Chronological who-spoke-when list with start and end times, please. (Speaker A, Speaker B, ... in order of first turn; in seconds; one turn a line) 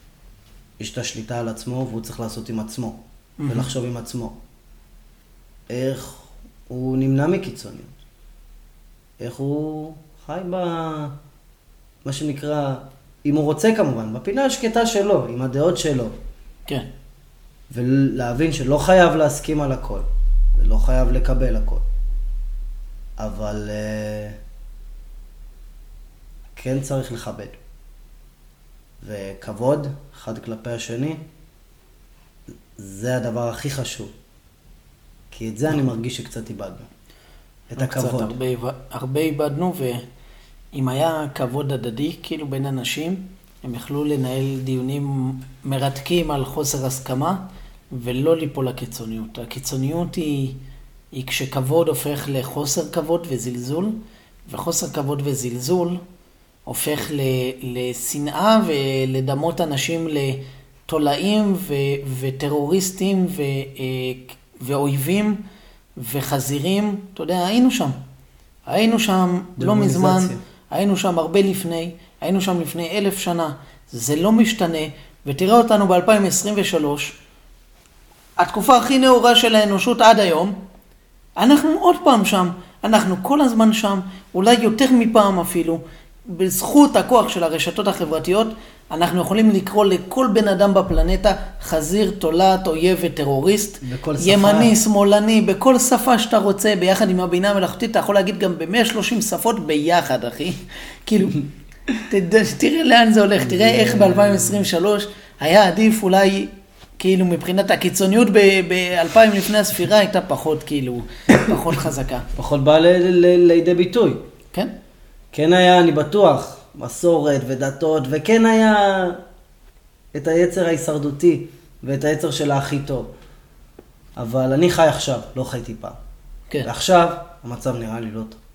Speaker A: 0.8-4.4
Speaker B: 3.4-3.7
Speaker A: 5.7-7.9
Speaker A: 9.2-11.1
Speaker A: 12.0-16.1
Speaker A: 17.7-21.8
Speaker A: 23.2-24.4
Speaker A: 26.5-27.6
Speaker A: 29.0-31.2
Speaker A: 32.8-34.1
Speaker A: 35.3-36.9
Speaker A: 37.7-38.3
Speaker B: 37.8-40.0
Speaker B: 40.7-50.6
Speaker B: 51.1-56.0
Speaker B: 56.7-65.4
Speaker B: 66.0-67.9
Speaker B: 68.7-77.1
Speaker A: 69.6-70.4
Speaker B: 78.4-80.6
Speaker B: 81.4-112.3
Speaker A: 93.8-94.7
Speaker A: 103.4-104.7
Speaker A: 112.4-114.2
Speaker A: 115.3-119.2
Speaker A: 120.1-123.1
Speaker A: 124.2-126.0
Speaker A: 126.6-128.4